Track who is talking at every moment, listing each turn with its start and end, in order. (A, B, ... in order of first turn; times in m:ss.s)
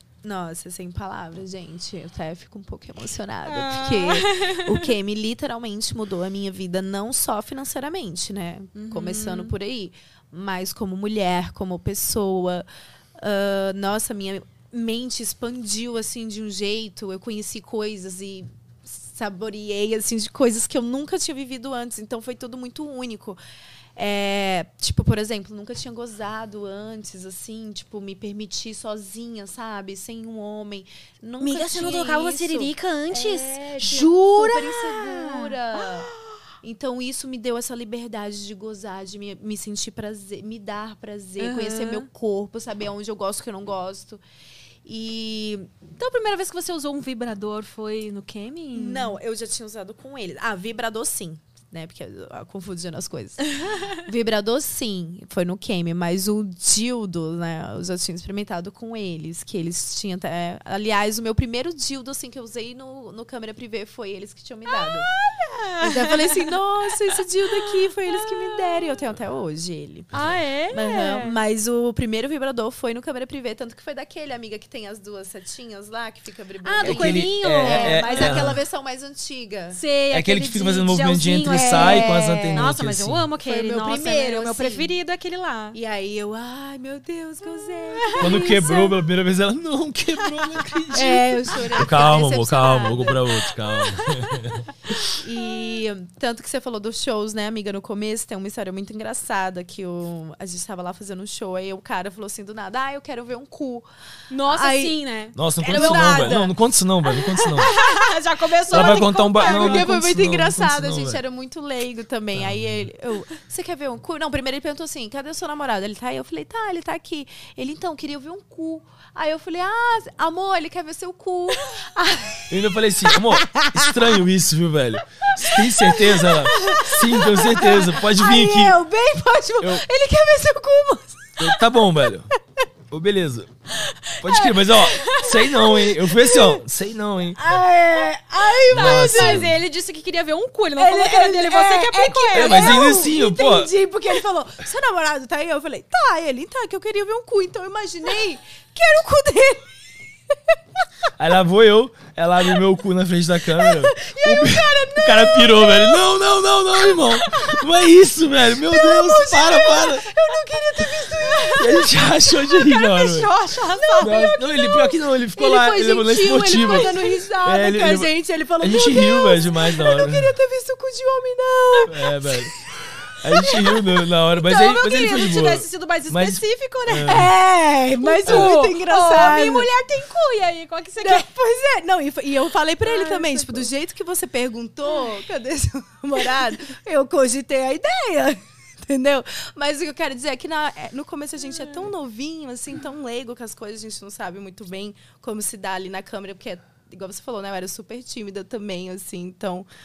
0:00.2-0:12.7 A
0:03.4-0:04.9 B
0:08.7-0:09.5 B
0:13.2-0:23.4 A
0:24.0-0:36.1 A
0:31.4-0:36.0 B
0:36.6-0:44.2 A
0:41.4-0:42.1 B
0:44.8-0:45.7 A
0:45.9-0:49.2 B
0:48.7-1:05.1 A
1:04.7-1:06.4 B
1:05.8-1:19.8 A
1:07.6-1:08.7 B
1:10.1-1:11.3 B
1:16.6-1:18.5 B
1:16.8-1:18.6 C
1:19.7-1:25.8 B
1:20.1-1:23.2 C
1:21.4-1:22.7 A
1:23.4-1:25.0 A
1:25.7-1:28.7 A
1:28.1-1:29.0 B
1:28.2-1:34.7 C
1:30.7-1:32.1 B
1:30.9-1:33.4 A
1:33.3-1:35.0 B
1:35.2-1:43.9 A
1:44.3-1:46.4 B
1:44.5-1:46.5 A
1:45.3-1:47.7 C
1:47.1-1:50.0 B
1:48.7-1:51.2 C
1:48.7-2:03.9 A
1:52.3-1:52.8 C
2:02.5-2:08.8 C
2:05.4-2:11.6 A
2:09.6-2:09.8 C
2:11.4-2:12.3 C
2:12.9-2:13.5 C
2:14.2-2:17.4 C
2:14.3-2:15.5 B
2:15.8-2:16.6 A
2:17.3-2:19.5 A
2:18.7-2:22.9 B
2:18.7-2:19.6 C
2:20.8-2:29.7 A
2:22.3-2:23.7 C
2:31.2-2:40.1 C
2:33.5-2:36.1 A
2:36.9-2:37.5 A
2:38.6-2:42.1 A
2:41.5-2:43.3 C
2:42.6-2:45.5 B
2:43.8-2:52.1 A
2:44.0-2:50.4 C
2:46.2-2:47.2 B
2:51.8-2:52.5 C
2:53.2-2:57.3 C
2:53.4-2:53.8 A
2:54.3-2:57.3 B
2:57.0-2:59.7 A
2:58.0-3:01.2 B
2:58.2-2:58.5 C
3:01.0-3:19.7 A
3:02.8-3:03.7 B
3:11.5-3:11.9 B